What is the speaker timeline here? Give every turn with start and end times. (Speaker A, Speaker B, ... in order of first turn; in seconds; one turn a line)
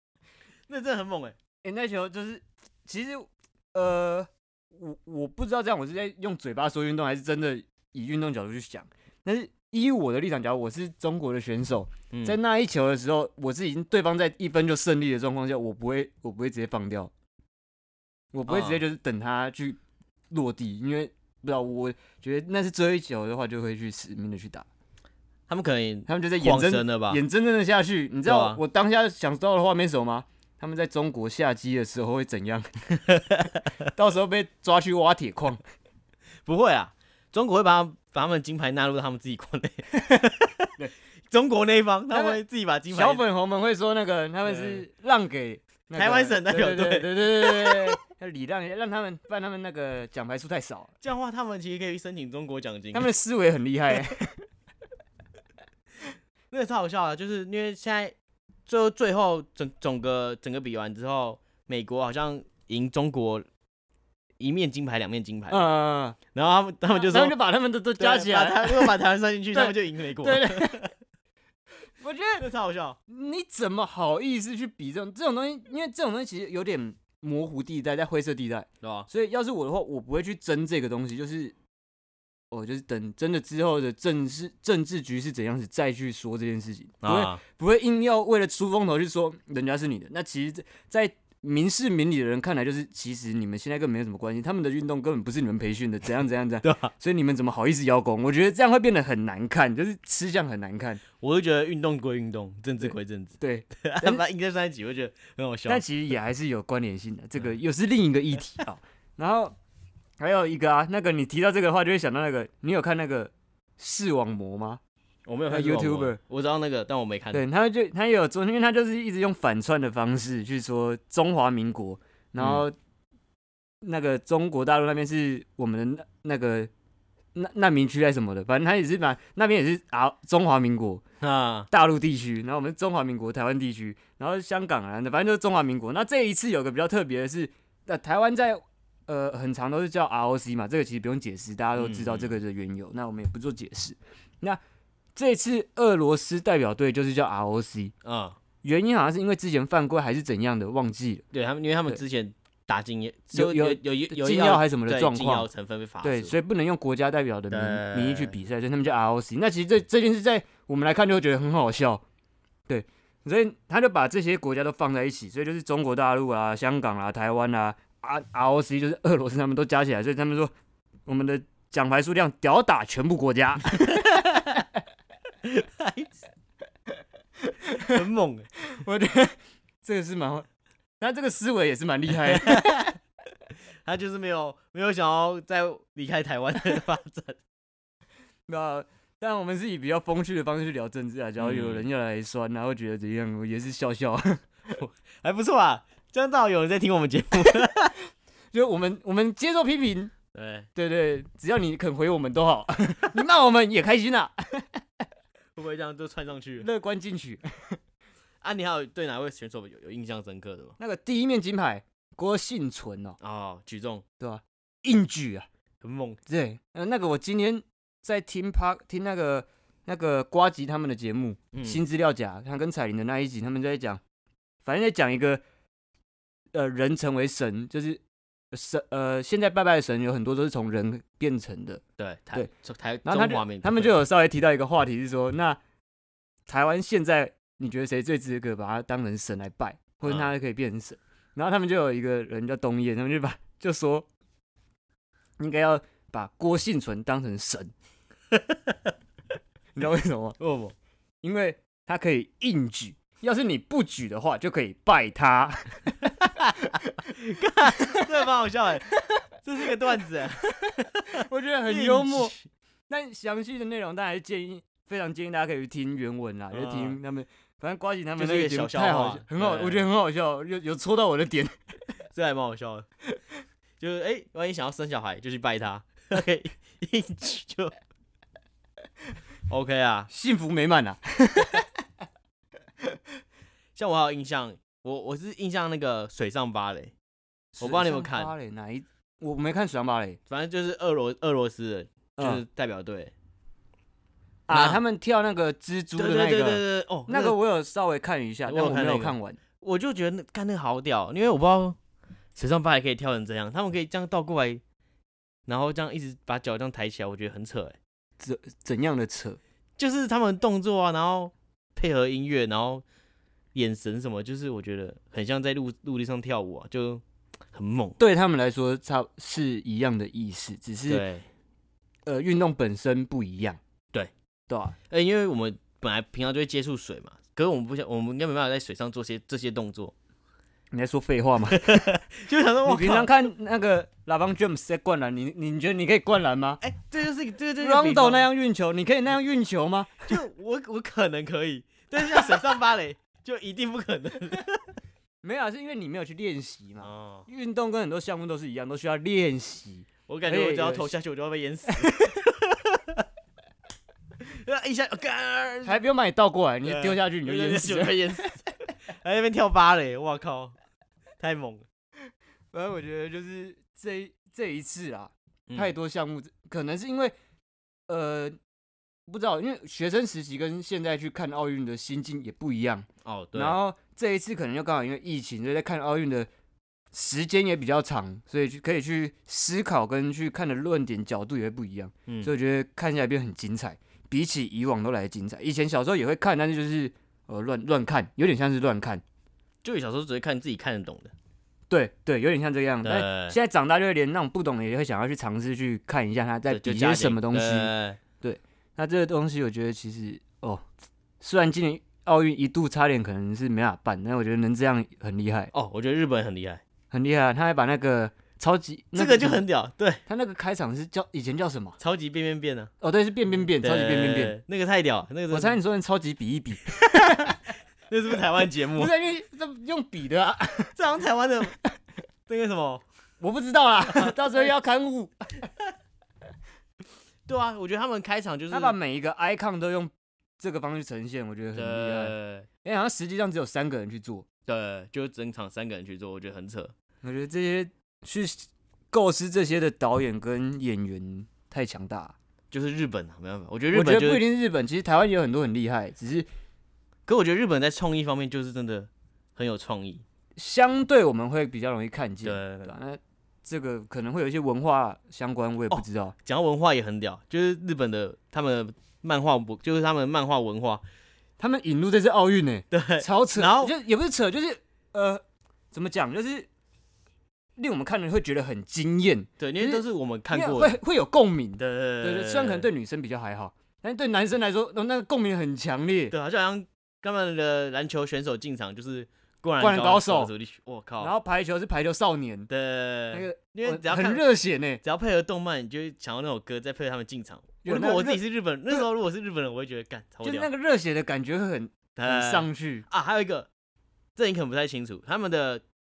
Speaker A: 0.7-1.4
Speaker B: 1.6-17.1
Speaker A: 12.1-12.4
Speaker B: 18.3-19.8
Speaker A: 18.5-18.8
Speaker B: 20.3-24.7
Speaker A: 25.5-27.2
Speaker B: 26.1-32.7
Speaker A: 28.2-28.6
Speaker A: 33.0-33.6
Speaker B: 33.9-35.6
Speaker A: 36.5-40.7
Speaker A: 41.3-43.2
Speaker B: 42.1-50.9
Speaker A: 44.4-44.8
Speaker A: 46.0-48.0
Speaker A: 51.0-53.1
Speaker B: 52.9-54.4
Speaker A: 56.5-58.1
Speaker A: 58.7-63.5
Speaker A: 64.4-65.7
Speaker B: 65.5-66.2
Speaker A: 66.3-67.3
Speaker B: 67.0-68.9
Speaker A: 68.0-70.9
Speaker B: 69.5-70.9
Speaker B: 72.0-72.4
Speaker A: 72.4-73.0
Speaker B: 73.1-81.5
Speaker A: 78.8-79.1
Speaker B: 82.5-101.0
Speaker A: 87.0-87.4
Speaker A: 96.6-96.9
Speaker A: 101.2-105.8
Speaker B: 102.8-104.2
Speaker B: 105.7-109.5
Speaker B: 110.2-114.8
Speaker A: 115.3-117.4
Speaker B: 115.5-116.2
Speaker B: 117.3-122.7
Speaker A: 122.4-122.6
Speaker B: 123.8-126.7
Speaker B: 127.3-131.0
Speaker A: 131.2-131.7
Speaker B: 131.7-144.6
Speaker A: 141.8-142.3
Speaker B: 145.2-147.9
Speaker A: 148.0-148.4
Speaker B: 148.6-151.2
Speaker A: 151.3-156.3
Speaker B: 153.3-155.5
Speaker B: 156.0-162.0
Speaker A: 157.5-158.3
Speaker B: 162.7-170.5
Speaker B: 171.1-174.3
Speaker A: 173.9-174.6
Speaker A: 175.4-176.1
Speaker B: 177.4-178.0
Speaker A: 177.8-178.5
Speaker B: 178.7-180.4
Speaker B: 181.0-182.8
Speaker A: 182.3-182.9
Speaker A: 183.8-187.4
Speaker B: 188.5-194.4
Speaker A: 191.4-191.8
Speaker A: 194.7-197.9
Speaker B: 198.5-200.1
Speaker A: 200.3-200.7
Speaker B: 200.7-205.0
Speaker A: 205.6-206.7
Speaker B: 206.6-207.8
Speaker A: 208.4-210.8
Speaker B: 210.8-213.2
Speaker A: 213.2-214.0
Speaker B: 214.2-215.5
Speaker A: 215.8-216.2
Speaker B: 216.3-224.0
Speaker A: 221.5-221.8
Speaker B: 224.6-225.4
Speaker B: 226.5-228.0
Speaker B: 228.5-231.8
Speaker A: 232.0-233.9
Speaker B: 233.0-235.6
Speaker B: 236.5-244.1
Speaker A: 240.0-240.3
Speaker B: 245.4-247.7
Speaker A: 248.3-248.9
Speaker B: 249.7-250.4
Speaker A: 250.4-250.7
Speaker B: 251.2-256.1
Speaker A: 256.2-262.4
Speaker B: 257.8-258.1
Speaker B: 261.1-262.3
Speaker B: 262.9-271.5
Speaker A: 266.5-267.0
Speaker A: 268.1-269.9
Speaker A: 272.1-272.9
Speaker A: 273.8-277.7
Speaker A: 279.5-280.1
Speaker B: 280.1-281.7
Speaker A: 283.7-286.9
Speaker B: 287.6-290.2
Speaker A: 287.6-288.3
Speaker A: 290.3-293.1
Speaker B: 292.2-292.4
Speaker B: 294.5-299.4
Speaker A: 294.5-294.8
Speaker A: 296.0-297.4
Speaker A: 298.5-301.8
Speaker A: 302.4-304.6
Speaker A: 305.5-307.8
Speaker B: 308.2-309.4
Speaker A: 309.8-312.8
Speaker A: 313.5-318.0
Speaker B: 318.0-321.0
Speaker A: 320.9-321.2
Speaker B: 322.1-323.6
Speaker B: 324.5-324.8
Speaker A: 324.9-329.9
Speaker B: 330.7-331.8
Speaker A: 331.5-333.1
Speaker B: 332.6-336.6
Speaker A: 336.6-338.2
Speaker B: 337.6-340.1
Speaker A: 340.1-344.6
Speaker B: 345.2-350.9
Speaker A: 346.8-347.3
Speaker A: 350.1-353.0
Speaker B: 351.8-352.1
Speaker A: 354.2-355.8
Speaker B: 355.6-358.4
Speaker A: 356.6-360.5
Speaker A: 361.2-361.6
Speaker B: 362.5-367.1
Speaker A: 365.5-365.7
Speaker B: 367.9-368.4
Speaker B: 369.1-376.3
Speaker A: 373.0-373.6
Speaker B: 376.9-389.0
Speaker A: 389.6-391.1
Speaker B: 391.7-397.7
Speaker A: 392.8-393.4
Speaker A: 396.5-398.0
Speaker B: 398.2-400.6
Speaker B: 401.2-405.5
Speaker A: 405.5-406.6
Speaker B: 406.9-409.4
Speaker A: 408.9-410.0
Speaker B: 410.1-411.8
Speaker A: 411.8-412.7
Speaker B: 412.8-414.4
Speaker A: 413.6-415.6
Speaker B: 415.3-417.4
Speaker A: 416.8-417.3
Speaker A: 417.9-418.9
Speaker B: 418.7-420.7
Speaker A: 420.7-421.6
Speaker A: 422.3-422.8
Speaker B: 423.2-425.4
Speaker A: 427.3-428.8
Speaker B: 428.5-432.1
Speaker A: 431.5-432.5
Speaker B: 432.6-434.2
Speaker A: 434.5-436.7
Speaker B: 437.0-442.1
Speaker A: 442.5-444.2
Speaker B: 443.7-446.2
Speaker A: 447.1-450.0
Speaker B: 450.4-456.1
Speaker A: 452.2-452.7
Speaker A: 455.7-460.8
Speaker B: 461.4-466.5
Speaker A: 462.7-463.7
Speaker B: 467.6-476.1
Speaker A: 469.4-470.8
Speaker A: 471.6-472.7
Speaker A: 476.1-481.1
Speaker B: 479.6-480.3
Speaker B: 481.0-482.5
Speaker A: 482.5-484.2
Speaker B: 483.1-484.8
Speaker A: 484.8-490.5
Speaker B: 487.6-488.8
Speaker B: 490.2-492.8
Speaker A: 491.9-493.5
Speaker A: 494.1-495.6